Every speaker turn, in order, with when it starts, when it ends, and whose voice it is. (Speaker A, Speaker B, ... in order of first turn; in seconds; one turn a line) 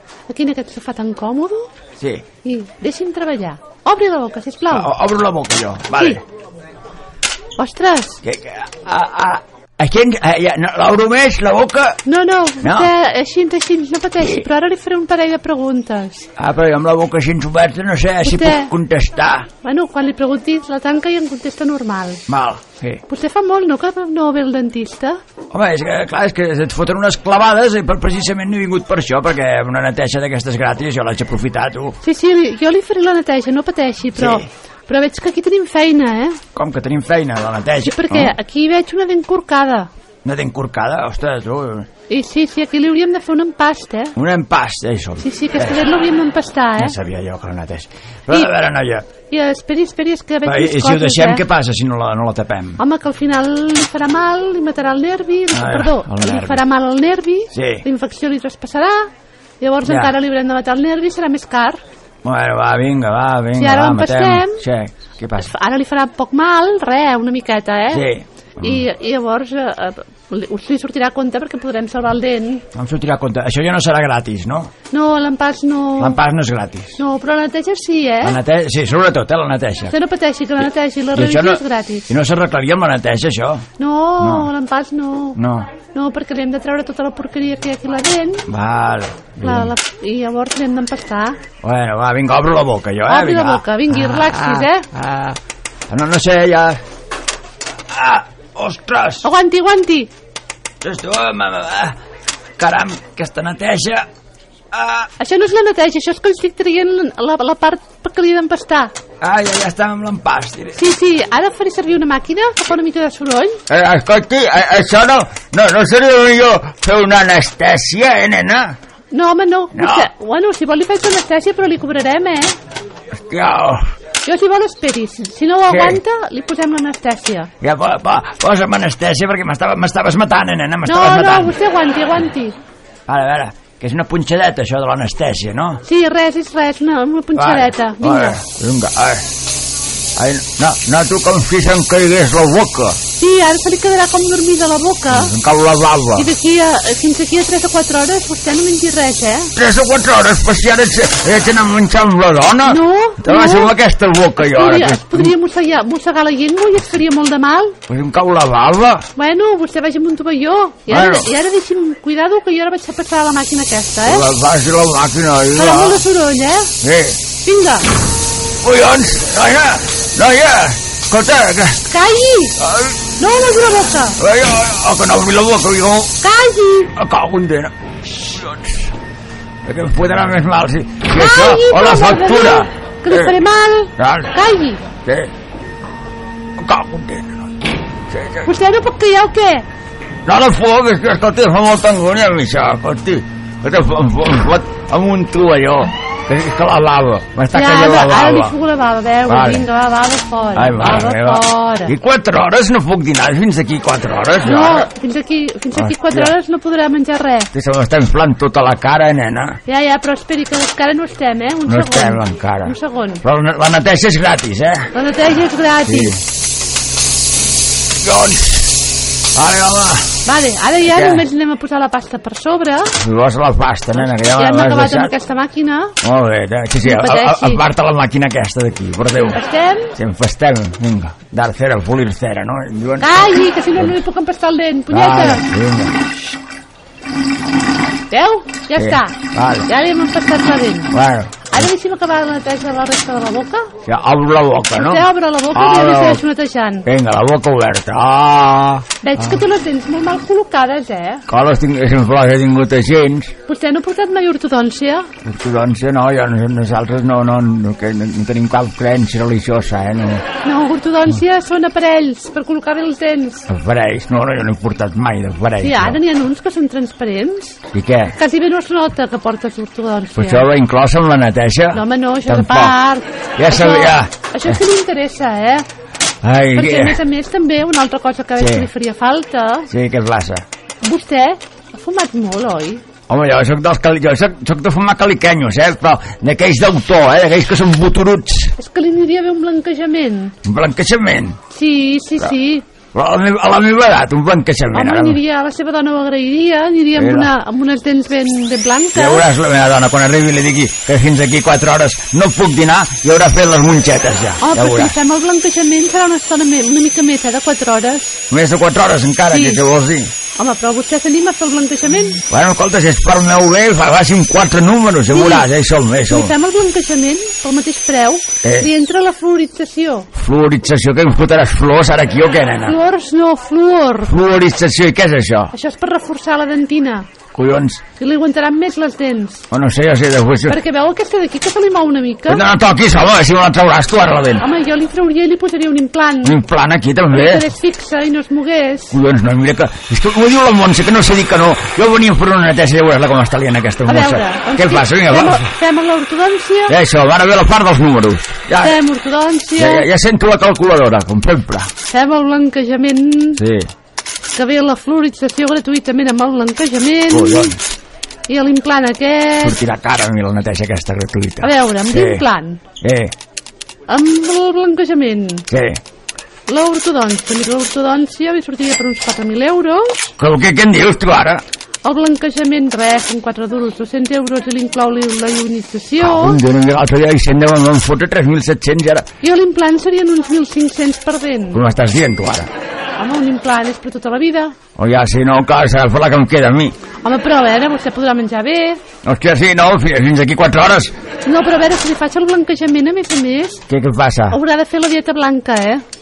Speaker A: 0.3-1.7
Speaker B: 2.0-2.2
Speaker A: 2.4-4.9
Speaker B: 4.7-6.2
Speaker A: 7.6-8.2
Speaker B: 8.2-12.0
Speaker A: 12.1-16.3
Speaker B: 12.6-12.9
Speaker B: 16.4-19.5
Speaker A: 18.2-18.7
Speaker A: 19.6-22.2
Speaker B: 22.3-23.0
Speaker A: 23.1-25.2
Speaker B: 25.5-32.0
Speaker A: 32.0-36.4
Speaker B: 34.1-34.5
Speaker B: 36.5-38.3
Speaker A: 37.8-39.9
Speaker B: 40.2-41.9
Speaker A: 42.1-44.1
Speaker B: 44.1-45.8
Speaker A: 45.2-47.0
Speaker B: 46.8-49.1
Speaker A: 49.3-51.4
Speaker B: 50.4-52.8
Speaker A: 52.8-59.1
Speaker B: 55.5-56.6
Speaker B: 57.5-57.8
Speaker A: 59.6-61.8
Speaker B: 59.8-60.1
Speaker B: 62.2-65.5
Speaker A: 63.5-64.6
Speaker A: 65.4-68.0
Speaker B: 67.9-68.8
Speaker A: 68.6-72.6
Speaker B: 72.7-74.7
Speaker A: 74.9-76.2
Speaker B: 76.0-77.0
Speaker A: 77.0-78.4
Speaker B: 78.2-79.9
Speaker A: 79.9-82.0
Speaker B: 81.1-83.6
Speaker A: 83.8-88.5
Speaker B: 84.2-84.5
Speaker B: 85.3-85.7
Speaker B: 88.5-89.7
Speaker A: 89.4-91.4
Speaker B: 91.6-96.8
Speaker A: 93.1-94.9
Speaker B: 97.9-99.2
Speaker A: 99.2-100.1
Speaker B: 100.8-102.0
Speaker B: 102.6-104.1
Speaker B: 104.7-105.1
Speaker A: 105.2-108.9
Speaker B: 109.2-110.8
Speaker A: 110.8-113.6
Speaker B: 113.7-118.8
Speaker A: 119.1-122.5
Speaker B: 119.7-120.1
Speaker B: 123.1-123.8
Speaker A: 124.2-127.5
Speaker B: 125.7-126.0
Speaker B: 127.6-131.5
Speaker A: 130.8-132.6
Speaker B: 133.1-135.8
Speaker A: 135.8-138.4
Speaker B: 137.3-139.3
Speaker B: 140.2-143.0
Speaker A: 143.2-145.3
Speaker B: 145.1-146.3
Speaker A: 146.2-149.5
Speaker B: 149.6-155.3
Speaker A: 152.7-153.7
Speaker A: 154.4-157.8
Speaker B: 157.9-159.1
Speaker A: 159.2-164.2
Speaker B: 160.9-161.3
Speaker B: 164.0-166.0
Speaker A: 165.5-166.7
Speaker B: 166.8-167.2
Speaker A: 167.4-167.9
Speaker B: 168.6-171.8
Speaker A: 171.9-172.6
Speaker B: 172.6-173.0
Speaker A: 173.2-174.2
Speaker B: 174.2-176.2
Speaker A: 176.2-176.9
Speaker B: 176.9-178.9
Speaker B: 179.6-183.4
Speaker A: 181.1-184.8
Speaker B: 184.0-184.3
Speaker B: 185.0-185.3
Speaker B: 186.6-187.6
Speaker B: 188.1-188.5
Speaker A: 188.4-189.7
Speaker B: 190.2-198.6
Speaker A: 197.5-201.9
Speaker B: 199.3-199.7
Speaker B: 200.5-204.9
Speaker A: 204.4-207.5
Speaker B: 205.7-206.3
Speaker B: 207.5-209.6
Speaker A: 209.7-213.2
Speaker B: 211.7-214.9
Speaker A: 214.9-216.1
Speaker B: 215.8-216.2
Speaker B: 218.0-218.8
Speaker B: 219.3-220.1
Speaker A: 220.2-222.9
Speaker B: 220.8-221.2
Speaker B: 223.0-225.1
Speaker A: 224.0-226.0
Speaker B: 226.0-229.4
Speaker A: 226.8-227.6
Speaker A: 229.3-229.9
Speaker B: 229.9-233.9
Speaker A: 233.0-235.4
Speaker B: 234.9-235.9
Speaker A: 238.1-239.2
Speaker B: 238.7-239.7
Speaker A: 239.7-240.9
Speaker B: 240.9-241.7
Speaker A: 241.5-243.7
Speaker B: 243.8-246.2
Speaker A: 244.7-246.8
Speaker B: 246.8-249.4
Speaker A: 249.0-251.2
Speaker B: 251.3-253.3
Speaker A: 253.5-255.1
Speaker B: 255.2-260.2
Speaker A: 260.4-263.5
Speaker B: 263.5-266.0
Speaker A: 265.6-267.6
Speaker B: 267.7-268.1
Speaker A: 268.1-270.4
Speaker B: 270.1-272.8
Speaker A: 271.7-275.6
Speaker B: 273.4-274.6
Speaker B: 276.2-277.0
Speaker A: 276.5-279.7
Speaker B: 278.4-278.7
Speaker B: 279.7-280.4
Speaker A: 280.8-282.8
Speaker B: 283.1-288.5
Speaker A: 288.6-290.3
Speaker B: 290.4-291.4
Speaker A: 291.5-292.6
Speaker B: 292.9-295.2
Speaker A: 294.7-299.2
Speaker B: 297.0-297.3
Speaker B: 298.9-304.9
Speaker A: 304.4-308.2
Speaker B: 308.3-310.1
Speaker A: 309.3-309.6
Speaker A: 310.4-312.2
Speaker B: 312.3-316.3
Speaker A: 315.1-315.5
Speaker A: 316.1-320.1
Speaker B: 318.4-318.7
Speaker B: 320.1-322.8
Speaker A: 322.6-324.1
Speaker B: 324.0-325.5
Speaker A: 325.5-327.1
Speaker B: 327.3-327.8
Speaker A: 328.0-329.4
Speaker B: 329.5-330.6
Speaker A: 330.5-332.4
Speaker B: 332.3-334.4
Speaker A: 334.4-336.4
Speaker B: 336.2-337.4
Speaker A: 337.1-338.9
Speaker B: 338.9-345.5
Speaker A: 343.9-346.8
Speaker B: 346.7-348.8
Speaker A: 348.6-349.9
Speaker B: 349.6-351.7
Speaker A: 351.9-353.4
Speaker B: 353.4-353.7
Speaker A: 354.3-357.5
Speaker B: 357.1-357.6
Speaker A: 358.3-359.6
Speaker B: 359.4-362.2
Speaker A: 361.4-362.6
Speaker B: 362.8-363.1
Speaker A: 363.9-365.5
Speaker B: 365.5-365.8
Speaker A: 366.5-370.0
Speaker B: 370.2-371.4
Speaker A: 371.8-376.4
Speaker B: 376.0-379.1
Speaker A: 379.2-381.6
Speaker B: 381.5-382.5
Speaker A: 383.0-384.6
Speaker B: 384.8-386.7
Speaker A: 387.0-388.8
Speaker B: 389.0-390.9
Speaker A: 391.2-393.6
Speaker B: 393.7-394.4
Speaker A: 394.3-395.8